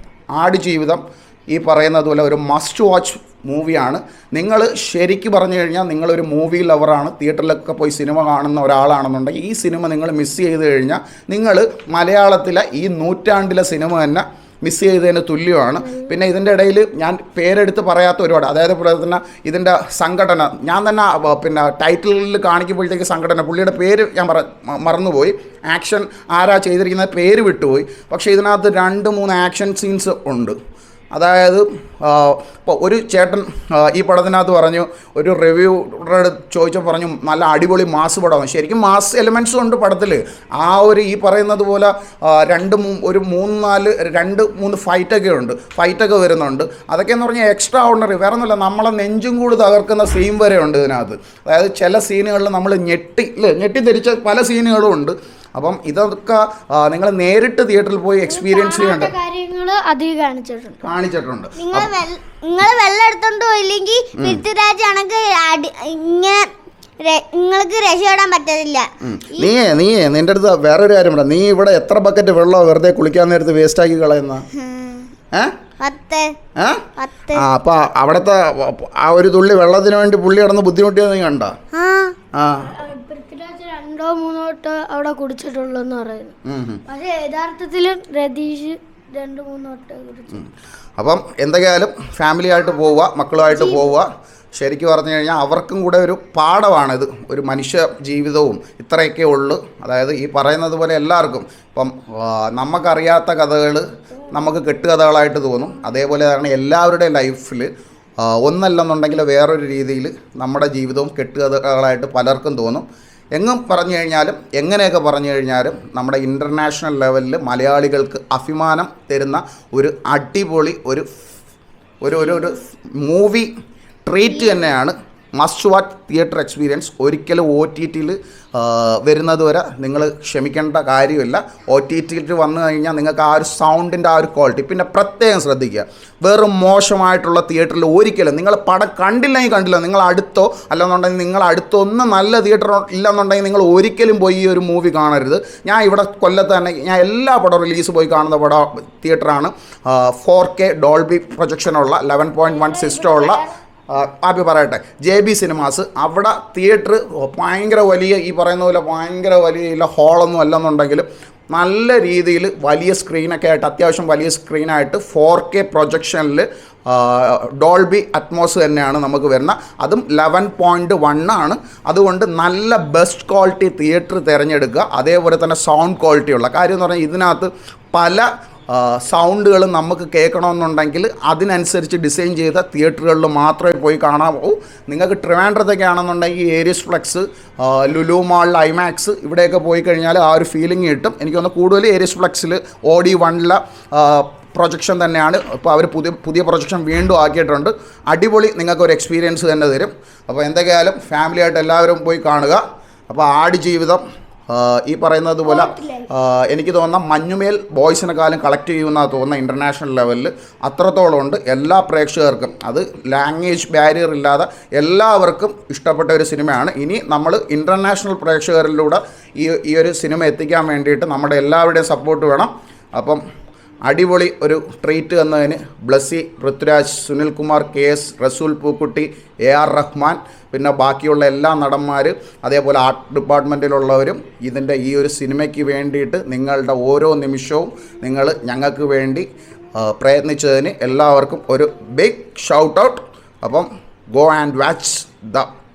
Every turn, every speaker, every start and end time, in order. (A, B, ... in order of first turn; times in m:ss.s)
0:00.4-0:01.0 A
0:01.5-0:30.6 A
0:31.1-0:59.1 A
0:58.3-1:00.8 B
1:00.8-1:01.9 A
1:01.6-1:06.5 C
1:04.2-1:04.4 A
1:07.0-1:09.6 C
1:09.0-1:14.5 A
1:14.5-1:15.1 C
1:15.8-1:16.3 C
1:16.6-1:21.5 A
1:17.0-1:17.4 C
1:21.7-1:22.2 C
1:22.4-1:22.8 A
1:22.7-1:26.3 B
1:26.5-1:26.8 A
1:26.9-1:30.4 B
1:31.0-1:47.7 A
1:33.5-1:33.9 B
1:48.2-2:01.1 A
2:02.0-2:03.5 A
2:04.0-3:43.2 A
2:32.4-2:33.5 B
3:25.4-3:26.1 B
3:43.9-3:59.3 A
3:59.8-4:05.5 A